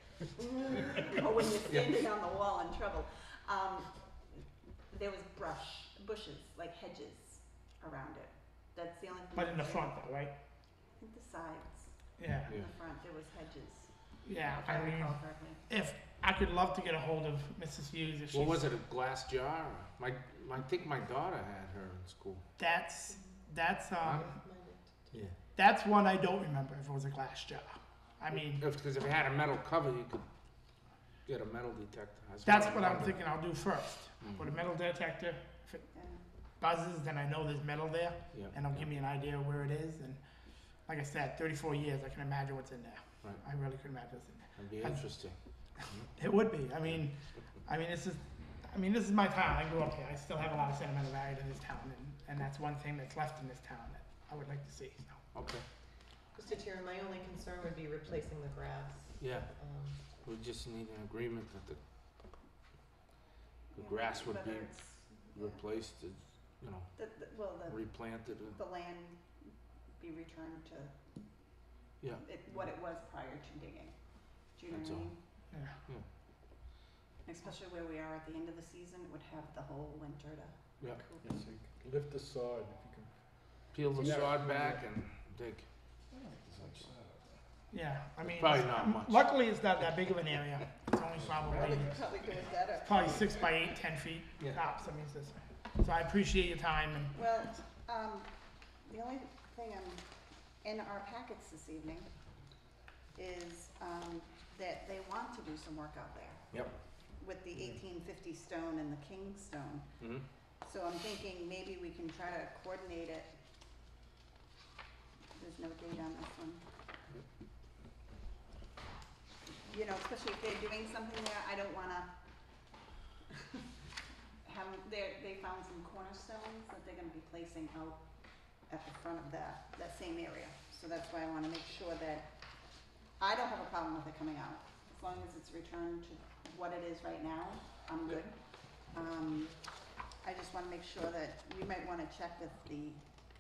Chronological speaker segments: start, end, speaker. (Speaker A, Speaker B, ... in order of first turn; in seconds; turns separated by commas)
Speaker A: 0.5-0.8, Speaker B: 0.7-10.0, Speaker C: 9.3-10.3, Speaker B: 11.0-12.0, Speaker C: 12.2-12.5, Speaker B: 12.5-13.9, Speaker C: 14.2-18.6, Speaker B: 14.5-15.6, Speaker D: 18.3-22.4, Speaker C: 22.6-24.3, Speaker A: 24.1-25.2, Speaker C: 25.6-28.6, Speaker D: 28.4-30.3, Speaker D: 31.3-33.2, Speaker C: 32.5-35.9, Speaker D: 34.2-34.5, Speaker B: 35.9-36.2, Speaker C: 36.6-40.2, Speaker D: 38.3-38.9, Speaker C: 40.9-45.0, Speaker D: 44.6-45.4, Speaker C: 46.2-55.2, Speaker D: 55.3-55.6, Speaker A: 56.4-60.0, Speaker D: 59.2-59.5, Speaker D: 60.1-61.8, Speaker B: 63.7-65.6, Speaker D: 63.8-66.9, Speaker B: 67.0-69.2, Speaker D: 67.7-68.6, Speaker B: 70.0-71.0, Speaker B: 72.2-75.2, Speaker D: 74.7-75.1, Speaker B: 77.2-81.3, Speaker E: 81.0-84.9, Speaker D: 83.7-85.7, Speaker E: 86.2-87.4, Speaker C: 87.7-92.0, Speaker D: 88.3-89.3, Speaker B: 91.5-93.2, Speaker C: 92.8-97.1, Speaker B: 97.2-100.0, Speaker B: 100.6-102.1, Speaker B: 103.2-106.5, Speaker B: 107.2-109.9, Speaker D: 110.0-110.2, Speaker B: 110.6-113.4, Speaker B: 115.4-116.6, Speaker B: 119.6-122.1, Speaker B: 124.4-128.0, Speaker B: 128.7-132.3, Speaker B: 133.2-138.4, Speaker B: 138.9-139.6, Speaker B: 140.2-143.0